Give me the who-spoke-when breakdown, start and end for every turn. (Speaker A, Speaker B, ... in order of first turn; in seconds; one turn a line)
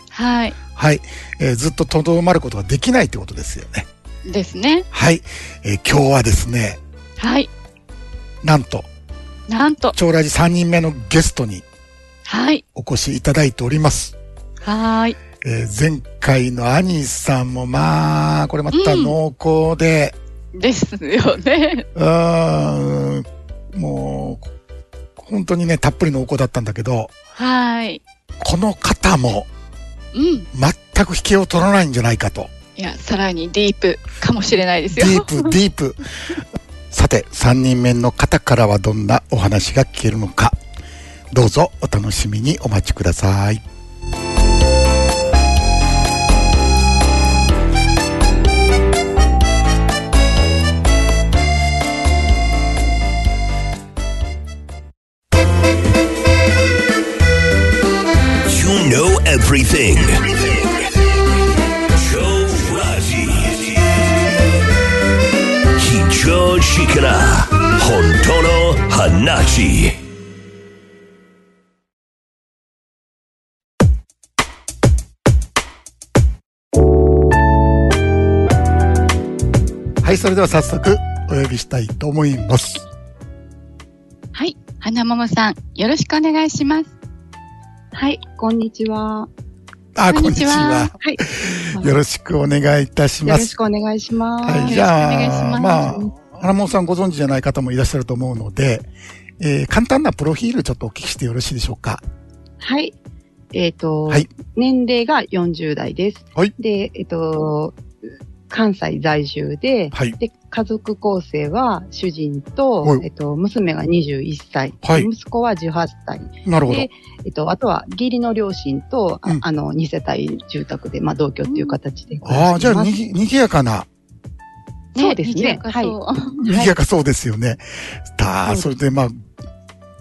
Speaker A: 0.1-0.6
Speaker B: 0.7-3.9
Speaker A: 4.2-4.8
Speaker B: 4.9-6.8
Speaker A: 7.2-7.5
Speaker B: 8.4-8.9
Speaker A: 9.5-9.9
Speaker B: 9.9-11.6
Speaker A: 12.2-12.6
Speaker B: 12.7-14.2
Speaker A: 14.6-15.2
Speaker B: 15.4-20.1
Speaker A: 18.7-19.1
Speaker A: 20.5-21.9
Speaker B: 21.9-24.5
Speaker B: 25.2-27.1
Speaker A: 27.4-28.0
Speaker B: 28.4-29.5
Speaker A: 30.1-30.5
Speaker B: 30.5-32.5
Speaker A: 32.8-35.5
Speaker B: 34.9-40.6
Speaker B: 41.3-43.6
Speaker C: 58.4-60.7
Speaker C: 61.9-64.1
Speaker C: 65.8-70.0
Speaker B: 80.0-82.8
Speaker A: 84.3-86.9
Speaker D: 87.9-89.3
Speaker B: 89.9-91.0
Speaker A: 90.1-90.9
Speaker D: 91.0-92.0
Speaker B: 91.7-93.5
Speaker D: 93.2-94.8
Speaker B: 94.4-98.9
Speaker A: 94.5-96.0
Speaker B: 99.4-102.0
Speaker D: 102.6-103.0
Speaker D: 103.5-107.8
Speaker D: 108.5-123.0
Speaker B: 114.8-115.1
Speaker B: 116.4-116.9
Speaker A: 121.5-121.8
Speaker B: 122.2-123.9
Speaker D: 124.9-126.7
Speaker A: 125.0-126.4
Speaker B: 126.4-129.2
Speaker D: 128.4-128.7